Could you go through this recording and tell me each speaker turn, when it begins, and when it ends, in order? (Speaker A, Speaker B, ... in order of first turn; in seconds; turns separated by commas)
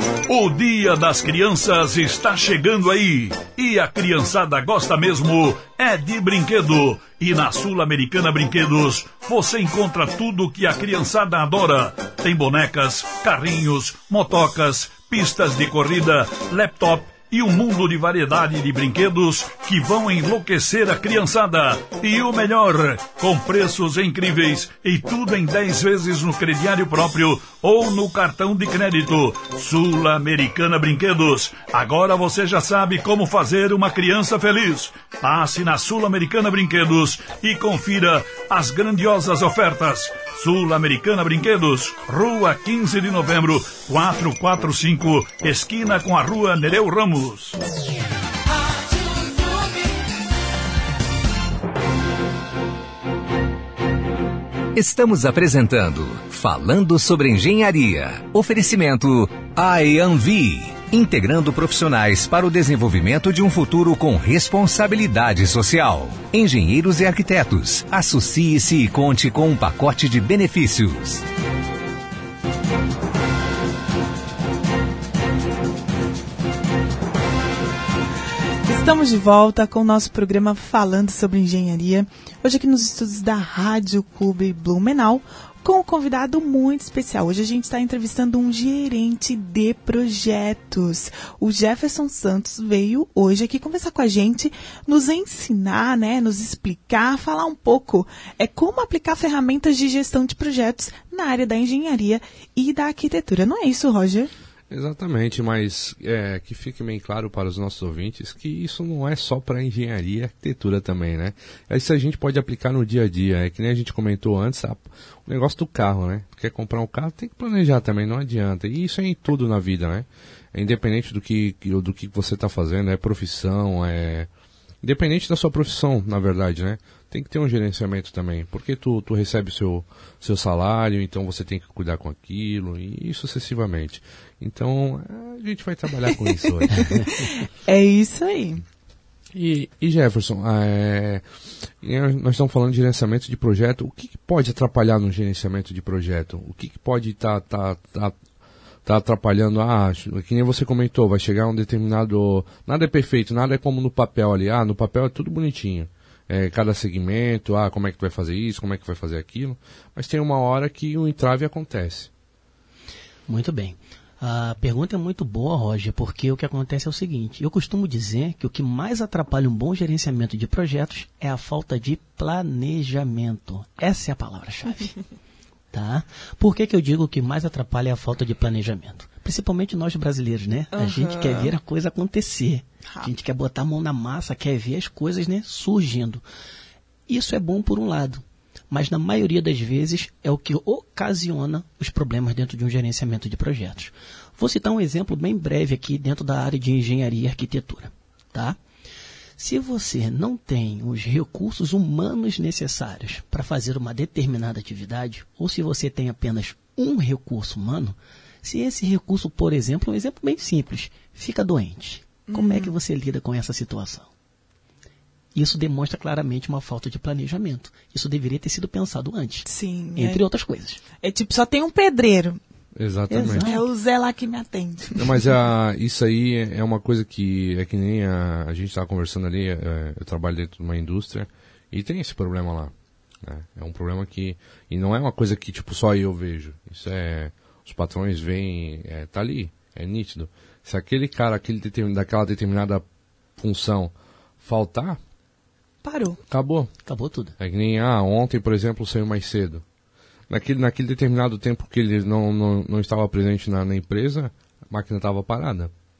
Speaker A: 0.3-47.6, Speaker B: 54.7-71.2, Speaker C: 78.7-104.3, Speaker D: 104.7-124.3, Speaker D: 124.8-137.1, Speaker C: 136.7-138.6, Speaker D: 139.3-141.2, Speaker D: 141.8-148.2, Speaker D: 148.8-162.1, Speaker E: 163.3-174.9, Speaker E: 175.7-186.2, Speaker C: 180.7-181.5, Speaker E: 187.1-198.6, Speaker E: 199.4-214.1, Speaker C: 212.3-212.8, Speaker E: 215.3-220.8, Speaker C: 219.4-220.2, Speaker C: 221.0-222.4, Speaker D: 222.8-223.5, Speaker E: 223.1-223.6, Speaker C: 223.3-225.3, Speaker D: 224.9-232.7, Speaker D: 233.2-242.8, Speaker D: 243.4-245.0, Speaker C: 245.8-246.2, Speaker D: 246.3-246.7, Speaker E: 246.9-247.4, Speaker D: 247.4-249.6, Speaker D: 250.3-255.7